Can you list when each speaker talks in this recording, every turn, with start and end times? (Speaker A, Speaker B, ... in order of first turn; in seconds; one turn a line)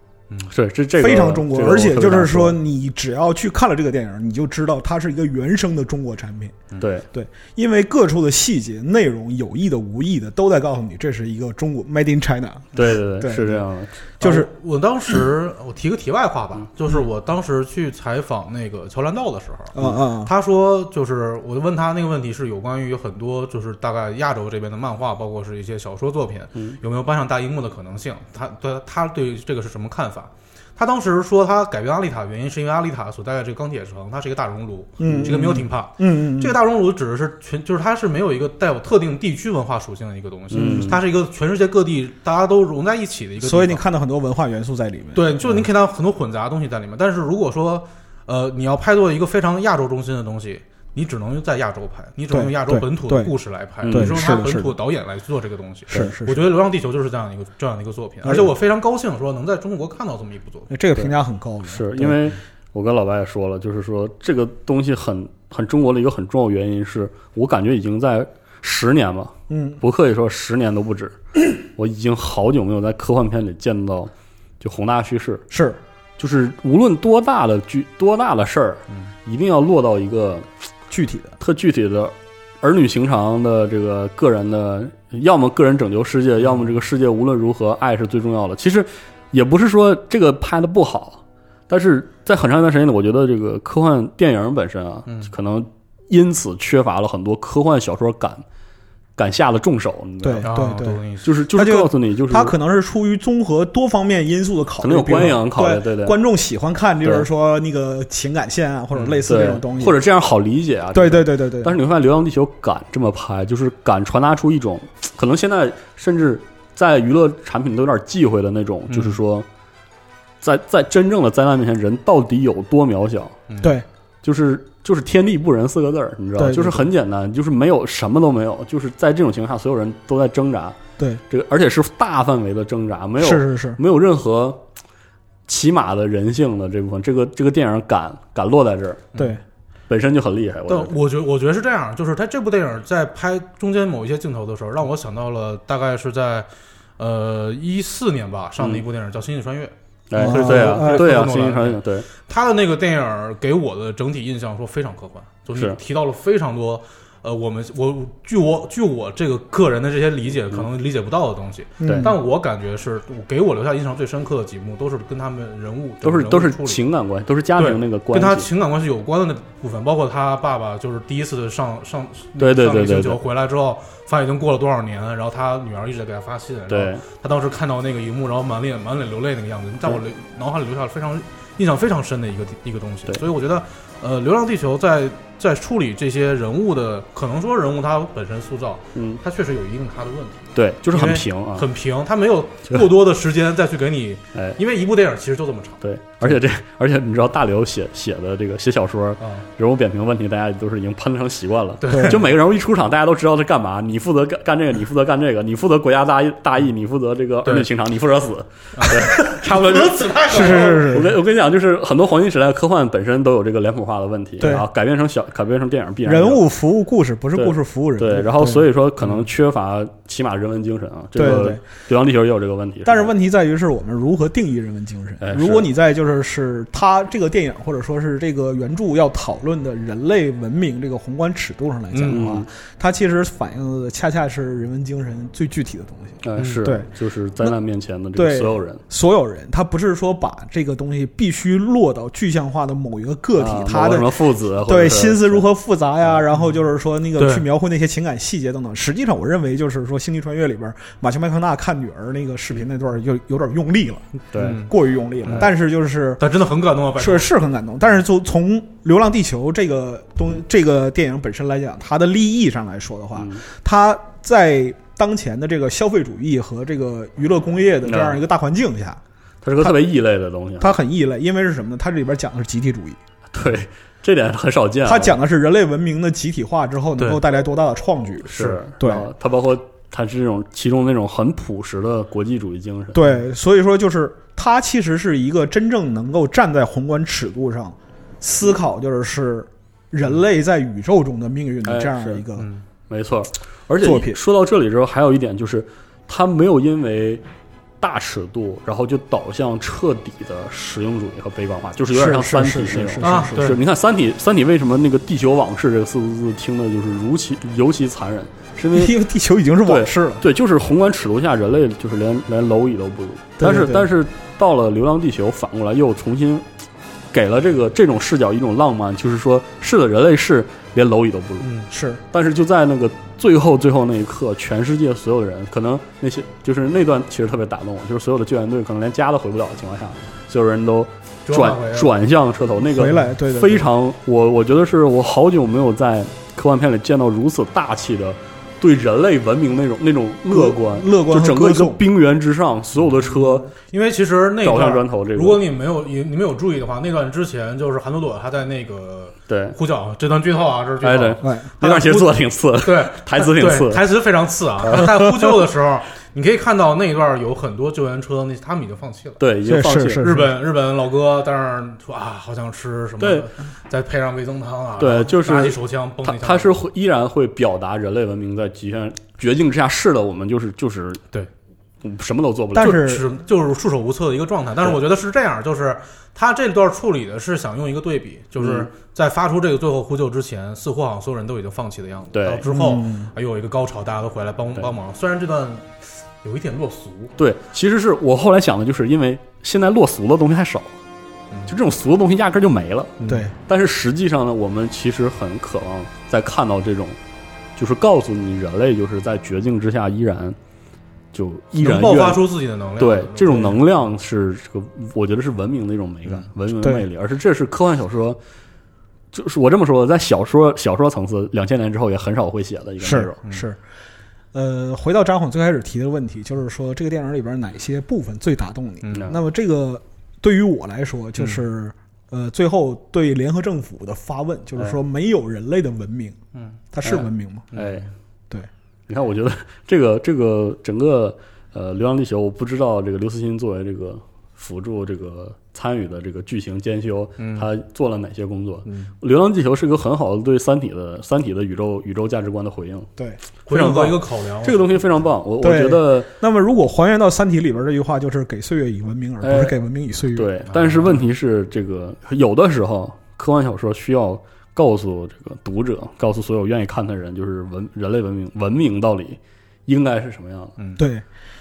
Speaker A: 0.5-2.6
Speaker B: 1.0-13.6
Speaker A: 6.8-7.0
Speaker A: 12.8-13.9
Speaker C: 14.2-43.8
Speaker B: 14.2-14.5
Speaker B: 19.8-20.3
Speaker B: 35.0-36.6
Speaker A: 40.5-41.0
Speaker B: 40.5-41.0
Speaker B: 43.4-45.6
Speaker C: 45.1-60.7
Speaker B: 52.3-53.3
Speaker A: 53.8-54.2
Speaker B: 53.9-54.8
Speaker B: 55.9-56.4
Speaker B: 58.2-58.5
Speaker B: 60.7-62.3
Speaker A: 61.6-71.2
Speaker B: 69.5-69.8
Speaker A: 71.7-75.4
Speaker B: 75.5-75.8
Speaker A: 76.2-80.5
Speaker B: 80.9-81.4
Speaker A: 81.4-98.4
Speaker A: 99.2-100.5
Speaker B: 100.2-101.0
Speaker C: 100.4-101.3
Speaker A: 101.2-102.5
Speaker B: 101.5-110.0
Speaker A: 104.8-106.2
Speaker A: 107.0-107.3
Speaker C: 108.9-109.2
Speaker A: 109.2-119.5
Speaker B: 110.9-111.8
Speaker C: 118.9-119.2
Speaker A: 120.4-123.4
Speaker C: 123.5-123.7
Speaker A: 124.2-130.8
Speaker B: 126.4-126.9
Speaker A: 131.3-134.6
Speaker B: 133.2-133.8
Speaker A: 135.5-139.1
Speaker A: 139.9-141.0
Speaker C: 140.7-166.8
Speaker A: 148.6-148.8
Speaker A: 150.1-152.1
Speaker B: 150.2-151.1
Speaker B: 161.8-162.1
Speaker A: 161.8-162.1
Speaker A: 166.0-168.5
Speaker C: 167.6-195.8
Speaker A: 172.4-173.2
Speaker A: 176.7-177.0
Speaker A: 188.9-189.2
Speaker A: 190.6-191.7
Speaker A: 195.8-216.4
Speaker C: 199.2-199.4
Speaker C: 201.8-202.3
Speaker B: 201.9-202.2
Speaker C: 208.8-210.9
Speaker B: 210.3-211.2
Speaker B: 214.4-214.7
Speaker B: 216.0-218.7
Speaker A: 217.4-223.1
Speaker B: 221.1-221.6
Speaker B: 222.8-236.9
Speaker A: 225.2-225.7
Speaker C: 231.9-232.3
Speaker A: 232.1-232.5
Speaker A: 236.2-238.8
Speaker C: 236.4-236.6
Speaker B: 238.2-256.2
Speaker A: 243.4-245.4
Speaker C: 247.2-247.4
Speaker A: 254.3-254.6
Speaker C: 254.4-254.7
Speaker C: 255.2-255.5
Speaker C: 256.2-257.3
Speaker B: 257.0-269.0
Speaker A: 263.1-263.4
Speaker A: 267.9-268.2
Speaker A: 269.4-270.8
Speaker B: 270.6-273.0
Speaker A: 273.3-275.2
Speaker B: 274.9-279.1
Speaker A: 278.3-283.1
Speaker B: 282.9-292.5
Speaker A: 291.6-292.2
Speaker C: 292.4-292.6
Speaker A: 292.9-297.2
Speaker B: 293.8-294.2
Speaker A: 297.8-309.0
Speaker B: 301.9-303.6
Speaker C: 303.0-303.6
Speaker B: 308.7-310.2
Speaker A: 309.6-316.4
Speaker B: 313.4-313.9
Speaker A: 317.1-321.5
Speaker C: 321.4-321.7
Speaker B: 321.7-322.0
Speaker A: 322.1-343.5
Speaker C: 331.3-331.9
Speaker B: 332.6-333.7
Speaker B: 340.3-341.8
Speaker C: 343.7-352.1
Speaker A: 344.4-345.4
Speaker A: 349.3-349.6
Speaker A: 350.8-353.9
Speaker B: 351.2-351.6
Speaker C: 352.6-359.2
Speaker A: 354.6-354.9
Speaker A: 359.2-360.1
Speaker B: 359.4-360.3
Speaker C: 360.0-366.5
Speaker A: 363.0-363.3
Speaker A: 364.8-371.0
Speaker A: 371.8-372.8
Speaker B: 372.5-373.1
Speaker C: 372.6-387.1
Speaker A: 378.4-378.7
Speaker A: 382.1-382.4
Speaker B: 382.5-383.1
Speaker A: 387.2-390.8
Speaker A: 391.5-397.0
Speaker C: 393.0-393.3
Speaker B: 393.1-393.4
Speaker A: 397.6-400.4
Speaker A: 401.1-402.2
Speaker C: 401.6-403.6
Speaker A: 402.8-408.2
Speaker B: 406.6-406.9
Speaker A: 409.1-413.2
Speaker B: 412.8-413.6
Speaker B: 414.3-426.2
Speaker C: 418.8-419.1
Speaker B: 426.7-427.5
Speaker A: 426.9-427.9
Speaker C: 427.5-427.9
Speaker A: 428.9-442.9
Speaker C: 437.2-437.5
Speaker C: 438.6-438.9
Speaker C: 443.5-444.8
Speaker A: 443.5-446.1
Speaker B: 445.4-450.3
Speaker A: 449.2-449.6
Speaker A: 450.1-460.6
Speaker C: 450.5-451.0
Speaker B: 460.8-461.1